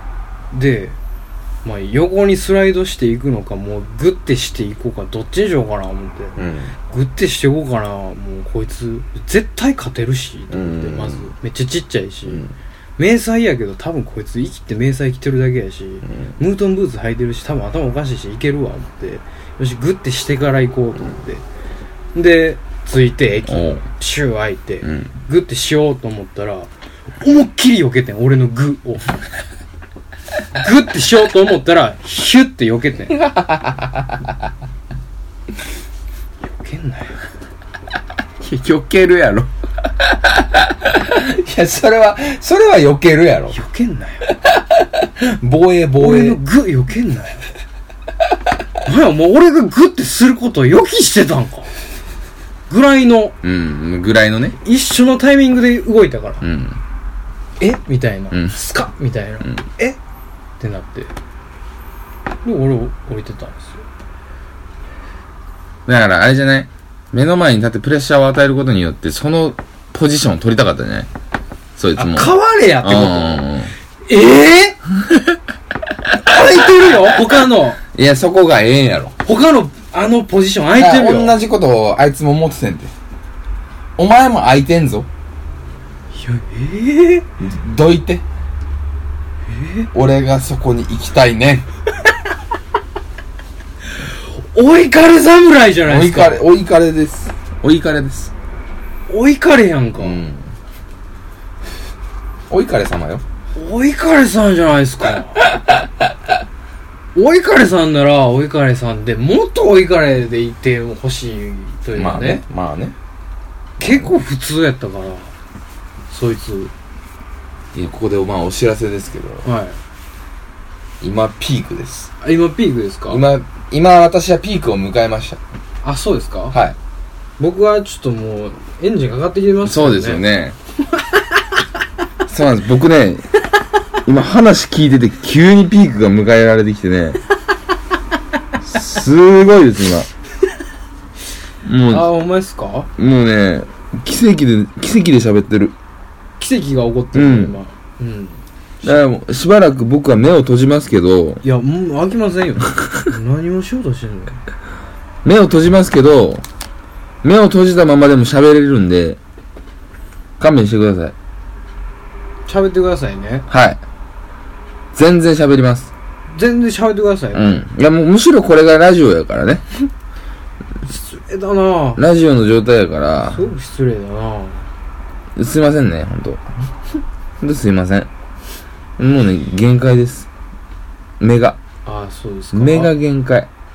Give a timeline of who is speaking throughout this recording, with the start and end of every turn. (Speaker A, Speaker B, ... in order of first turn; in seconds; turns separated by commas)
Speaker A: 0.5-1.0, Speaker A: 1.6-6.4, Speaker B: 6.3-6.7, Speaker A: 6.9-12.4, Speaker B: 10.5-11.2, Speaker B: 12.3-12.5, Speaker A: 13.0-21.4, Speaker B: 16.1-16.4, Speaker A: 22.1-29.1, Speaker B: 23.5-23.8, Speaker B: 24.8-25.1, Speaker A: 30.6-33.2, Speaker B: 33.1-34.4, Speaker A: 36.5-37.2, Speaker B: 38.4-43.5, Speaker A: 43.5-44.3, Speaker B: 44.3-46.4, Speaker A: 46.0-47.4, Speaker A: 48.8-51.7, Speaker A: 52.7-53.4, Speaker B: 53.4-54.6, Speaker A: 54.6-56.4, Speaker B: 56.4-56.8, Speaker A: 57.6-60.0, Speaker B: 58.3-58.5, Speaker A: 60.6-61.1, Speaker A: 62.4-63.8, Speaker B: 65.8-71.1, Speaker B: 71.8-73.7, Speaker A: 72.0-73.5, Speaker A: 74.0-74.8, Speaker B: 75.0-75.4, Speaker A: 76.2-77.8, Speaker B: 76.8-77.3, Speaker B: 77.8-79.2, Speaker A: 79.2-81.4, Speaker B: 80.8-82.9, Speaker B: 84.0-85.1, Speaker A: 86.1-87.3, Speaker B: 87.4-88.2, Speaker A: 89.5-89.9, Speaker B: 89.9-91.7, Speaker A: 94.0-96.4, Speaker B: 95.8-98.3, Speaker A: 99.1-100.2, Speaker B: 100.0-100.5, Speaker B: 102.5-103.2, Speaker A: 103.5-105.4, Speaker A: 107.1-112.4, Speaker B: 111.9-113.0, Speaker B: 113.8-114.1, Speaker A: 113.8-115.3, Speaker A: 116.1-116.7, Speaker B: 117.7-119.5, Speaker A: 119.4-119.8, Speaker B: 121.0-122.1, Speaker A: 122.2-123.2, Speaker B: 123.1-125.4, Speaker A: 125.8-126.6, Speaker B: 126.5-126.8, Speaker A: 127.4-130.2, Speaker B: 129.6-130.6, Speaker B: 132.2-133.2, Speaker B: 134.0-137.2, Speaker B: 138.6-140.1, Speaker B: 141.6-142.1, Speaker A: 141.9-142.9, Speaker B: 143.0-145.7, Speaker A: 146.4-149.0, Speaker B: 147.1-147.6, Speaker B: 148.8-151.4, Speaker A: 151.4-154.4, Speaker B: 155.2-156.4, Speaker B: 157.2-159.2, Speaker B: 160.4-161.1, Speaker A: 162.4-163.4, Speaker B: 163.5-163.8, Speaker B: 164.9-165.9, Speaker A: 166.3-167.7, Speaker B: 167.3-169.6, Speaker A: 170.9-172.0, Speaker B: 172.0-173.5, Speaker A: 173.2-174.7, Speaker B: 175.3-176.4, Speaker B: 177.4-178.1, Speaker B: 179.0-180.3, Speaker B: 181.2-181.6, Speaker A: 181.8-182.9, Speaker B: 182.5-183.5